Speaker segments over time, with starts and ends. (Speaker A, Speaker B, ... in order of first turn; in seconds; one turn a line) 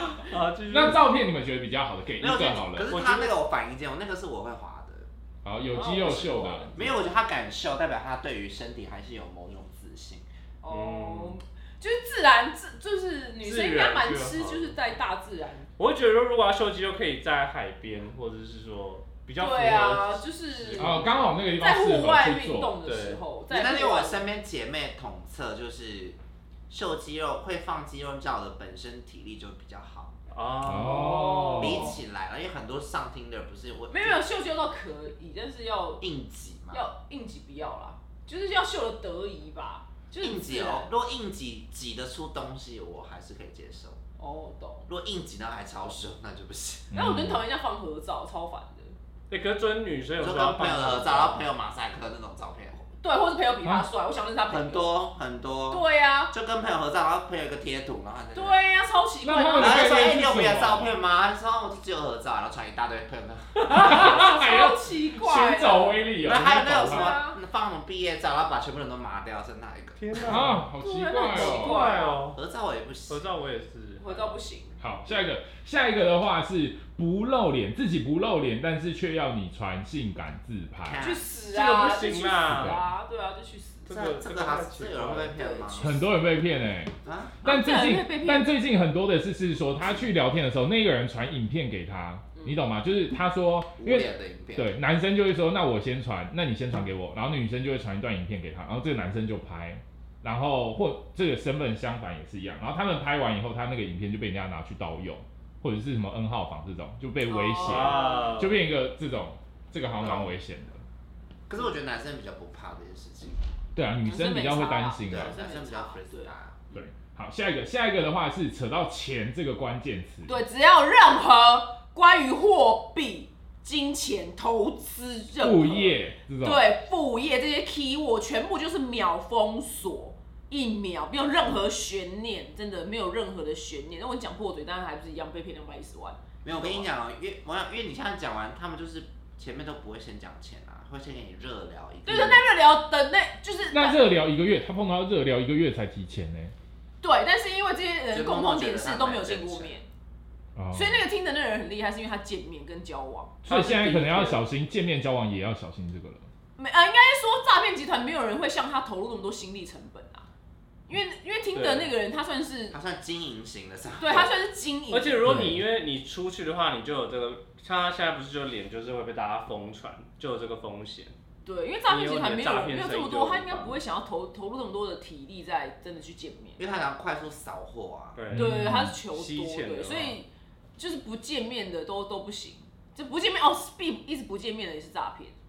Speaker A: 0.2-1.1
Speaker B: 0.7-2.9
Speaker C: 2.2-5.1
Speaker A: 2.9-3.3
Speaker B: 5.4-7.0
Speaker D: 5.7-7.0
Speaker C: 6.8-10.2
Speaker D: 10.6-15.7
Speaker A: 10.7-11.4
Speaker A: 13.4-14.8
Speaker A: 15.8-21.1
Speaker D: 19.4-24.3
Speaker B: 20.8-22.8
Speaker A: 22.8-23.2
Speaker C: 23.5-26.2
Speaker C: 26.7-30.1
Speaker A: 30.3-31.9
Speaker B: 30.6-32.0
Speaker C: 31.6-34.2
Speaker D: 33.9-36.0
Speaker C: 36.0-36.8
Speaker D: 36.7-40.9
Speaker C: 40.2-44.0
Speaker D: 44.2-44.9
Speaker C: 44.9-46.9
Speaker B: 46.9-47.4
Speaker D: 46.9-48.9
Speaker A: 49.3-51.5
Speaker C: 50.2-52.9
Speaker D: 53.0-55.0
Speaker C: 54.5-58.6
Speaker D: 55.7-56.3
Speaker D: 58.3-59.9
Speaker B: 59.2-61.0
Speaker C: 59.6-63.9
Speaker D: 63.7-66.1
Speaker B: 63.7-67.2
Speaker C: 66.2-70.0
Speaker D: 66.8-67.4
Speaker A: 70.0-70.7
Speaker B: 70.2-71.8
Speaker D: 70.8-72.2
Speaker A: 71.3-72.4
Speaker C: 72.3-73.3
Speaker A: 73.1-74.4
Speaker D: 74.0-74.8
Speaker B: 74.8-81.1
Speaker C: 80.8-81.3
Speaker D: 81.0-83.9
Speaker A: 81.5-82.8
Speaker B: 82.5-82.9
Speaker A: 83.9-85.3
Speaker C: 83.9-86.0
Speaker D: 85.3-86.1
Speaker B: 85.8-110.8
Speaker C: 87.0-87.4
Speaker D: 87.4-88.5
Speaker C: 93.8-94.7
Speaker D: 107.2-108.3
Speaker A: 107.6-108.7
Speaker C: 110.0-110.3
Speaker C: 111.5-113.4
Speaker B: 113.8-115.3
Speaker D: 114.0-116.3
Speaker C: 115.1-116.6
Speaker B: 116.7-120.4
Speaker D: 120.2-136.9
Speaker B: 125.4-126.7
Speaker C: 136.4-142.5
Speaker D: 142.0-144.1
Speaker B: 143.7-146.5
Speaker D: 147.0-149.9
Speaker C: 148.1-149.8
Speaker B: 150.6-151.0
Speaker D: 150.7-153.3
Speaker B: 153.4-156.2
Speaker A: 153.5-154.4
Speaker D: 156.6-160.2
Speaker D: 160.9-162.8
Speaker A: 161.5-161.9
Speaker C: 162.7-164.3
Speaker D: 164.0-165.5
Speaker A: 164.9-171.1
Speaker B: 165.2-165.6
Speaker D: 171.4-176.7
Speaker A: 171.8-173.8
Speaker C: 176.6-178.2
Speaker A: 178.1-180.2
Speaker B: 178.3-179.0
Speaker D: 178.3-185.3